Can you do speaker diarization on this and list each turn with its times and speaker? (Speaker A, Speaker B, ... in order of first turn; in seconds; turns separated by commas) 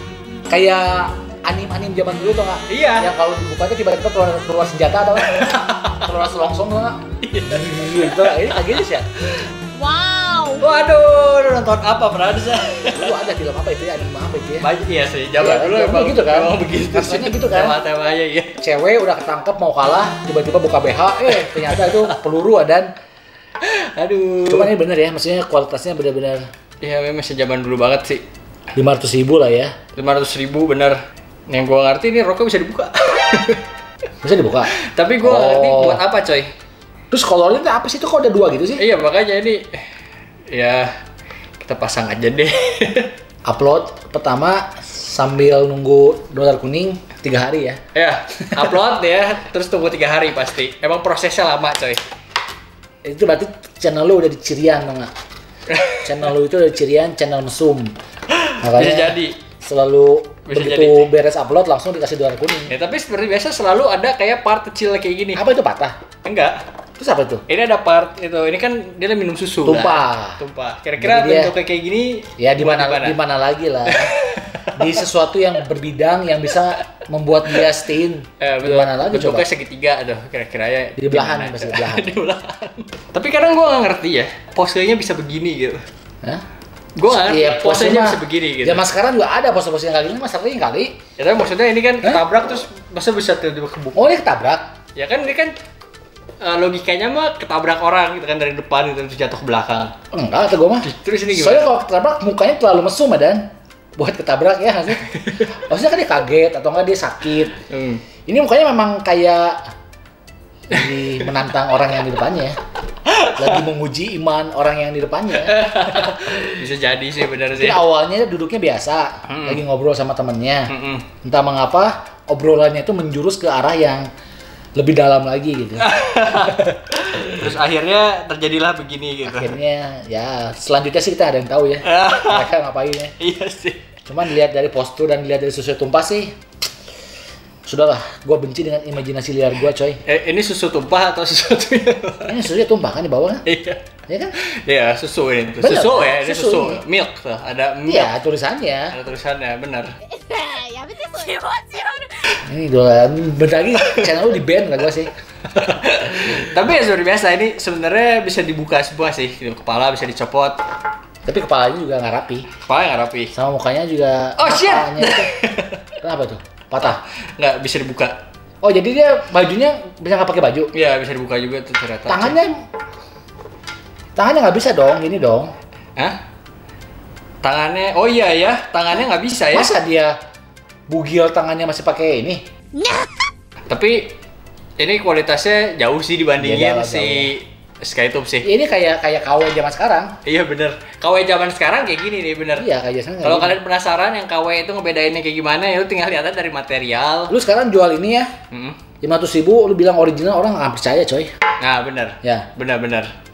Speaker A: 0.5-9.1, Speaker B: 2.7-3.1, Speaker B: 5.2-6.1, Speaker B: 7.2-9.5, Speaker C: 9.7-10.6, Speaker B: 10.6-13.2, Speaker A: 12.9-14.7, Speaker B: 14.6-18.6, Speaker A: 15.4-17.8, Speaker A: 18.6-22.9, Speaker B: 21.3-22.2, Speaker B: 23.6-24.7, Speaker A: 24.5-26.5, Speaker B: 26.8-28.2, Speaker A: 28.8-29.7, Speaker B: 29.9-33.6, Speaker A: 34.2-36.0, Speaker B: 34.8-36.5, Speaker A: 37.1-38.8, Speaker B: 38.8-39.8, Speaker B: 40.5-41.0, Speaker B: 41.6-43.1, Speaker A: 43.5-47.8, Speaker B: 47.9-52.0, Speaker A: 53.0-55.1, Speaker B: 55.7-56.2, Speaker A: 56.0-57.9, Speaker B: 58.3-59.4, Speaker A: 58.6-62.8, Speaker B: 60.5-61.1, Speaker B: 62.7-65.4, Speaker A: 65.3-66.0, Speaker B: 66.2-66.6, Speaker A: 67.0-67.5, Speaker B: 67.5-73.2, Speaker A: 69.7-70.4, Speaker A: 71.0-71.5, Speaker A: 72.4-74.2, Speaker B: 73.9-75.1, Speaker A: 74.8-79.5, Speaker B: 78.4-85.8, Speaker A: 81.0-82.2, Speaker B: 87.0-88.9, Speaker A: 87.1-91.0, Speaker B: 91.2-94.1, Speaker A: 94.0-94.7, Speaker B: 95.0-95.5, Speaker B: 96.4-99.9, Speaker A: 100.1-107.6, Speaker B: 100.8-101.7, Speaker B: 105.0-105.5, Speaker B: 107.6-108.0, Speaker A: 108.3-109.6, Speaker A: 110.7-112.6, Speaker B: 113.0-113.6, Speaker A: 113.3-116.4, Speaker B: 115.3-117.8, Speaker A: 117.5-120.7, Speaker B: 119.3-119.6, Speaker B: 120.7-121.1, Speaker A: 121.2-124.1, Speaker A: 124.8-126.8, Speaker B: 125.8-129.5, Speaker A: 129.2-133.1, Speaker B: 131.8-132.5, Speaker B: 133.2-133.8, Speaker A: 134.1-136.3, Speaker A: 137.7-140.0, Speaker B: 140.1-142.4, Speaker A: 142.2-143.4, Speaker B: 143.5-148.1, Speaker A: 144.1-144.3, Speaker A: 145.6-146.8, Speaker A: 147.9-148.9, Speaker B: 148.9-149.9, Speaker C: 150.2-152.0, Speaker A: 152.4-155.1, Speaker B: 155.5-160.6, Speaker A: 161.2-162.5, Speaker B: 162.6-163.3, Speaker A: 163.3-165.3, Speaker B: 164.4-165.9, Speaker A: 166.0-167.0, Speaker B: 166.8-168.2, Speaker A: 168.6-170.7, Speaker B: 170.7-172.4, Speaker A: 172.1-172.6, Speaker A: 174.2-175.5, Speaker B: 177.4-179.7, Speaker A: 179.5-180.1, Speaker A: 180.9-182.4, Speaker C: 182.7-183.3, Speaker B: 183.7-184.2, Speaker B: 184.8-188.5, Speaker A: 186.4-187.3, Speaker A: 188.4-190.1, Speaker B: 190.2-192.7, Speaker A: 192.6-193.6, Speaker B: 193.2-197.3, Speaker A: 197.3-198.3, Speaker B: 198.5-198.8, Speaker A: 199.0-201.3, Speaker B: 201.6-203.1